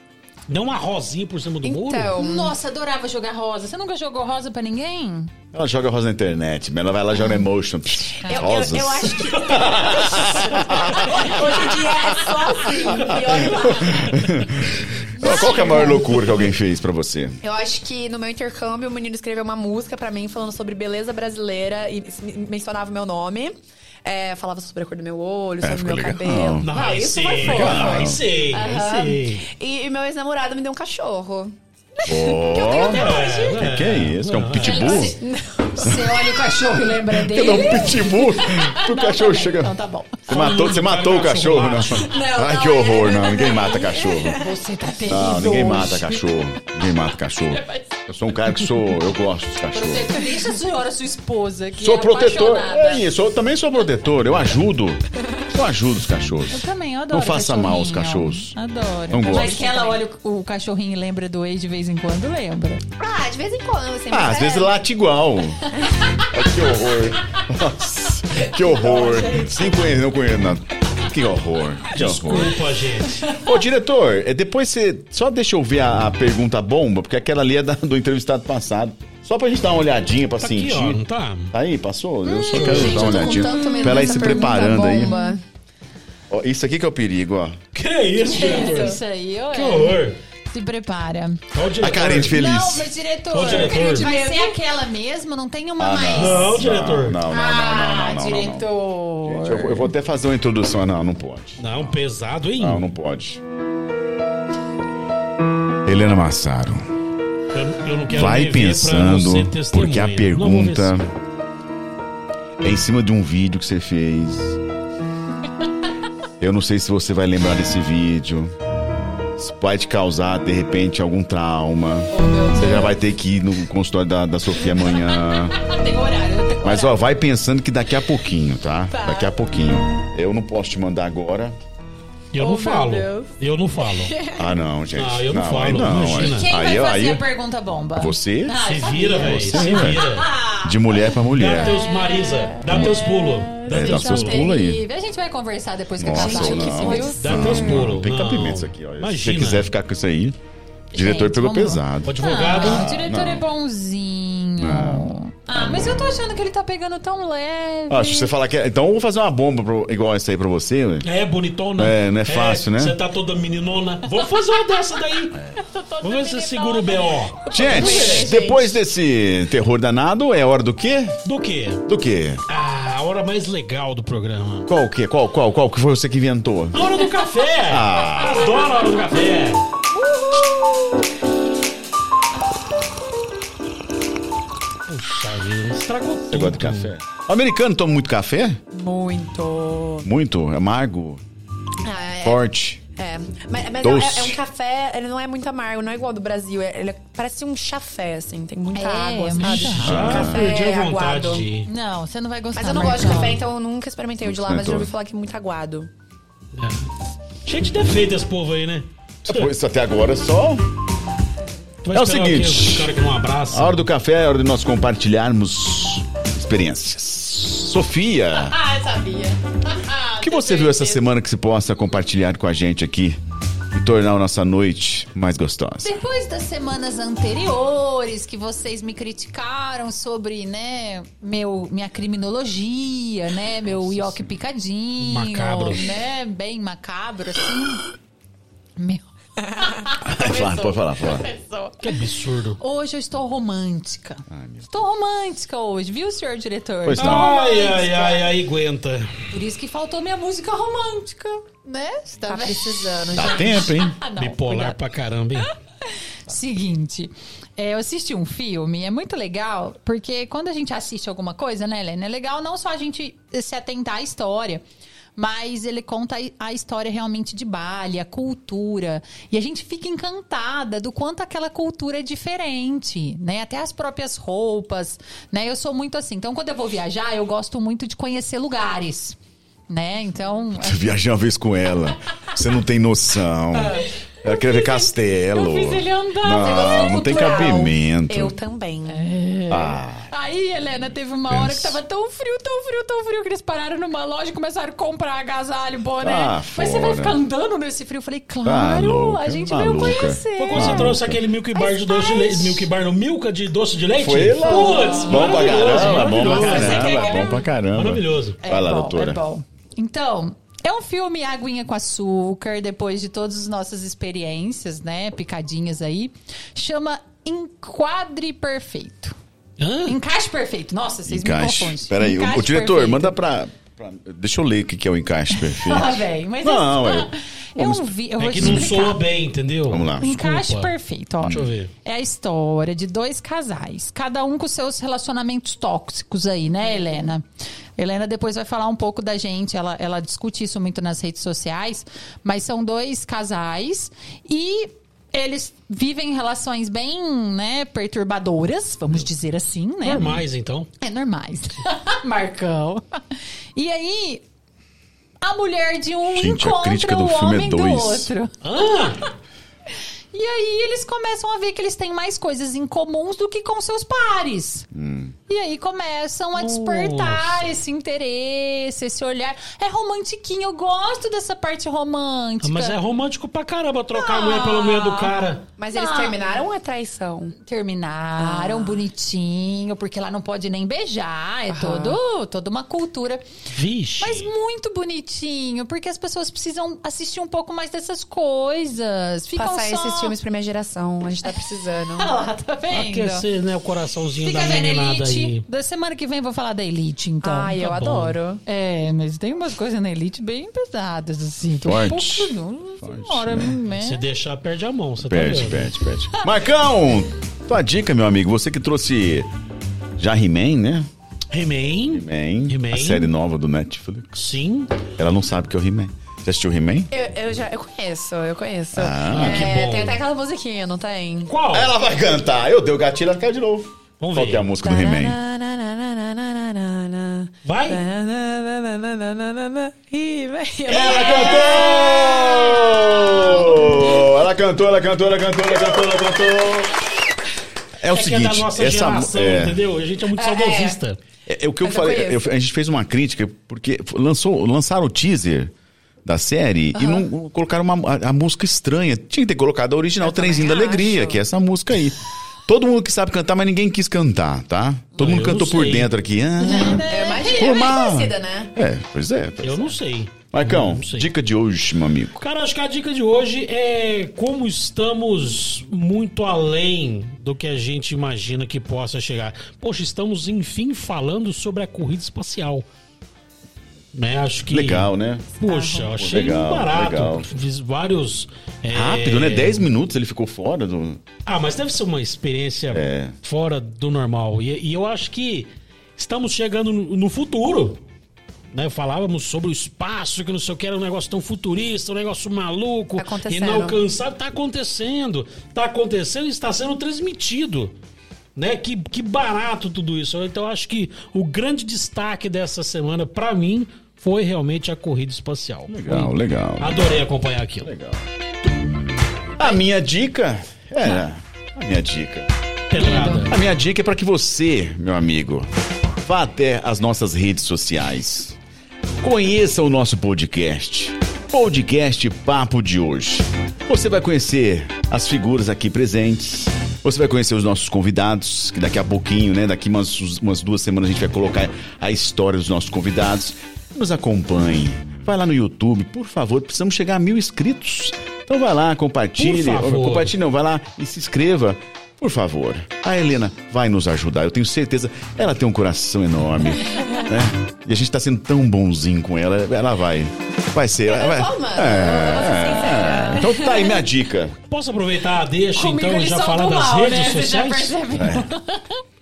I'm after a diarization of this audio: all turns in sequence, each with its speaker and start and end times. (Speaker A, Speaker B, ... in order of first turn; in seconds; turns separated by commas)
Speaker A: 0.5-2.2, Speaker B: 1.6-2.5, Speaker C: 2.2-5.3, Speaker D: 5.5-12.3, Speaker C: 7.2-7.5, Speaker C: 8.0-8.5, Speaker B: 8.3-14.3, Speaker A: 9.1-9.7, Speaker D: 12.8-17.4, Speaker A: 12.9-13.4, Speaker B: 15.2-16.0, Speaker C: 15.2-16.0, Speaker A: 15.4-16.5, Speaker B: 17.4-33.6, Speaker D: 25.6-26.7, Speaker A: 26.6-29.5, Speaker D: 27.4-28.2, Speaker D: 32.0-35.2, Speaker A: 32.7-35.1, Speaker C: 34.6-40.3, Speaker B: 34.9-36.0, Speaker D: 35.8-36.2, Speaker D: 37.2-44.5, Speaker B: 37.4-37.8, Speaker A: 40.3-42.2, Speaker B: 42.0-44.5, Speaker C: 44.4-46.2, Speaker D: 45.1-50.2, Speaker C: 49.7-53.1, Speaker D: 51.8-58.5, Speaker C: 56.5-62.8, Speaker D: 59.1-59.9, Speaker B: 59.5-60.0, Speaker B: 63.0-64.7, Speaker D: 64.1-72.6, Speaker B: 65.8-66.1, Speaker B: 68.6-69.7, Speaker A: 71.9-73.2, Speaker D: 73.2-85.2, Speaker A: 80.4-81.5, Speaker B: 82.3-85.4, Speaker A: 82.5-83.1, Speaker C: 83.0-85.4, Speaker D: 86.3-87.6, Speaker A: 87.7-89.0, Speaker C: 88.3-91.4, Speaker B: 88.3-89.0, Speaker A: 89.5-90.2, Speaker A: 91.5-92.4, Speaker D: 91.8-92.9, Speaker C: 92.2-96.6, Speaker A: 93.3-94.1, Speaker B: 93.5-94.6, Speaker D: 95.8-98.7, Speaker A: 96.1-97.2, Speaker C: 97.3-99.9, Speaker D: 99.2-102.0, Speaker A: 101.6-102.8, Speaker D: 102.6-103.4, Speaker D: 105.9-106.8, Speaker A: 107.5-111.0, Speaker D: 108.1-111.1, Speaker D: 112.6-114.6, Speaker D: 116.4-118.5, Speaker D: 119.4-125.6, Speaker B: 122.1-123.0, Speaker C: 125.3-127.0, Speaker D: 126.6-131.6, Speaker B: 128.9-129.3, Speaker A: 132.3-134.1, Speaker B: 132.4-134.6, Speaker D: 134.3-137.2, Speaker A: 134.9-136.5, Speaker C: 136.1-141.1, Speaker D: 138.0-140.1, Speaker A: 138.6-140.3, Speaker D: 140.6-141.8, Speaker A: 141.3-144.4, Speaker B: 141.8-144.5, Speaker D: 142.7-143.1, Speaker D: 143.6-144.8, Speaker C: 143.8-147.8, Speaker D: 146.0-150.4, Speaker B: 146.1-147.7, Speaker A: 147.2-149.7, Speaker D: 150.9-153.4, Speaker C: 150.9-158.3, Speaker A: 152.0-152.9, Speaker D: 154.6-156.1, Speaker D: 157.9-161.1, Speaker A: 161.0-165.4, Speaker D: 161.8-163.0, Speaker C: 165.6-168.1, Speaker A: 166.0-168.3, Speaker B: 167.5-168.7, Speaker D: 167.5-171.2, Speaker A: 171.2-171.8, Speaker D: 171.9-172.4, Speaker A: 172.5-174.7, Speaker D: 174.7-176.8, Speaker A: 176.7-179.6, Speaker D: 177.7-178.5, Speaker B: 179.9-181.0, Speaker A: 184.9-186.9, Speaker D: 186.3-188.6, Speaker B: 188.7-190.1, Speaker D: 190.0-191.2, Speaker B: 191.8-192.4, Speaker D: 192.2-192.8, Speaker B: 193.0-201.5, Speaker D: 193.8-194.4, Speaker C: 198.7-200.1, Speaker A: 199.4-201.7, Speaker D: 199.8-200.5, Speaker C: 201.7-203.4, Speaker B: 202.6-205.9, Speaker D: 204.2-204.9, Speaker A: 206.5-206.9, Speaker A: 207.4-209.5, Speaker D: 209.3-210.7, Speaker A: 211.8-213.9, Speaker D: 211.9-212.9, Speaker D: 213.5-218.6, Speaker B: 218.5-220.7, Speaker D: 220.2-223.2, Speaker C: 220.5-221.0, Speaker D: 223.7-225.9, Speaker C: 225.8-237.8, Speaker A: 235.0-235.9, Speaker C: 238.8-239.1, Speaker C: 239.6-241.8, Speaker D: 240.0-241.3, Speaker A: 241.8-242.6, Speaker C: 242.6-248.3, Speaker D: 244.3-244.7, Speaker D: 246.8-247.3, Speaker A: 247.0-249.1, Speaker C: 249.3-254.8, Speaker B: 252.2-253.7, Speaker D: 253.1-254.0, Speaker A: 254.2-255.5, Speaker C: 255.4-264.6, Speaker C: 265.2-279.2, Speaker C: 279.7-280.9, Speaker D: 280.6-288.3, Speaker C: 283.8-287.0, Speaker B: 286.4-289.1, Speaker C: 288.9-301.0, Speaker D: 289.5-290.1, Speaker D: 291.3-291.8, Speaker D: 296.0-297.2, Speaker D: 298.4-301.2, Speaker A: 300.4-308.4, Speaker C: 301.6-302.6, Speaker D: 304.0-309.2, Speaker C: 304.4-307.4, Speaker C: 308.4-319.1, Speaker A: 319.6-320.0, Speaker C: 319.9-323.2, Speaker D: 321.1-328.7, Speaker C: 325.3-329.0, Speaker A: 328.2-330.7, Speaker D: 329.7-330.1, Speaker C: 330.0-337.2, Speaker D: 331.2-331.5, Speaker A: 331.3-331.7, Speaker C: 337.8-350.2, Speaker A: 349.8-350.7, Speaker C: 350.8-354.2, Speaker C: 355.2-359.1, Speaker D: 356.1-358.1, Speaker A: 358.4-359.0, Speaker C: 360.1-364.7, Speaker D: 364.7-365.1, Speaker C: 365.3-372.8, Speaker A: 366.4-367.4, Speaker A: 372.4-375.4, Speaker C: 373.9-375.1, Speaker B: 375.6-377.4, Speaker C: 375.7-376.2, Speaker C: 377.4-383.3, Speaker B: 378.2-378.8, Speaker B: 381.5-382.0, Speaker A: 383.5-384.3, Speaker C: 384.0-390.1, Speaker B: 389.4-392.1, Speaker C: 392.0-393.2, Speaker A: 392.7-395.4, Speaker C: 394.2-404.0, Speaker B: 397.2-398.4, Speaker D: 401.6-403.6, Speaker A: 403.7-405.7, Speaker D: 405.0-409.3, Speaker D: 410.0-410.9, Speaker A: 411.3-413.1, Speaker D: 411.9-414.3, Speaker A: 414.2-414.7, Speaker D: 415.0-416.9, Speaker B: 416.9-421.3, Speaker D: 418.7-419.5, Speaker A: 419.1-420.0, Speaker A: 421.3-421.7, Speaker D: 421.5-425.2, Speaker A: 424.0-424.5, Speaker B: 424.6-434.1, Speaker A: 427.4-427.8, Speaker D: 430.7-436.7, Speaker A: 430.7-431.6, Speaker D: 437.8-439.6, Speaker A: 437.9-441.0, Speaker B: 440.1-440.8, Speaker D: 441.3-445.5, Speaker B: 441.6-442.2, Speaker D: 446.1-459.8, Speaker B: 450.0-451.2, Speaker A: 455.0-455.9, Speaker C: 456.4-457.7, Speaker B: 456.4-458.5, Speaker A: 459.4-461.1, Speaker D: 460.3-462.2, Speaker A: 462.2-472.7, Speaker A: 473.9-479.7, Speaker D: 474.5-475.3, Speaker C: 475.4-475.9, Speaker D: 476.0-477.3, Speaker D: 478.7-481.0, Speaker A: 481.3-487.8, Speaker D: 482.7-483.1, Speaker A: 488.5-497.7, Speaker B: 493.0-493.8, Speaker A: 498.4-507.7, Speaker D: 505.7-507.1, Speaker D: 507.6-508.1, Speaker D: 509.4-512.3, Speaker A: 512.7-513.3, Speaker C: 512.7-513.4, Speaker D: 512.8-515.5, Speaker D: 516.0-518.4, Speaker D: 519.0-554.4, Speaker A: 539.2-540.1, Speaker B: 550.9-553.4, Speaker C: 552.7-553.7, Speaker A: 554.5-557.8, Speaker C: 555.5-558.8, Speaker D: 557.9-558.3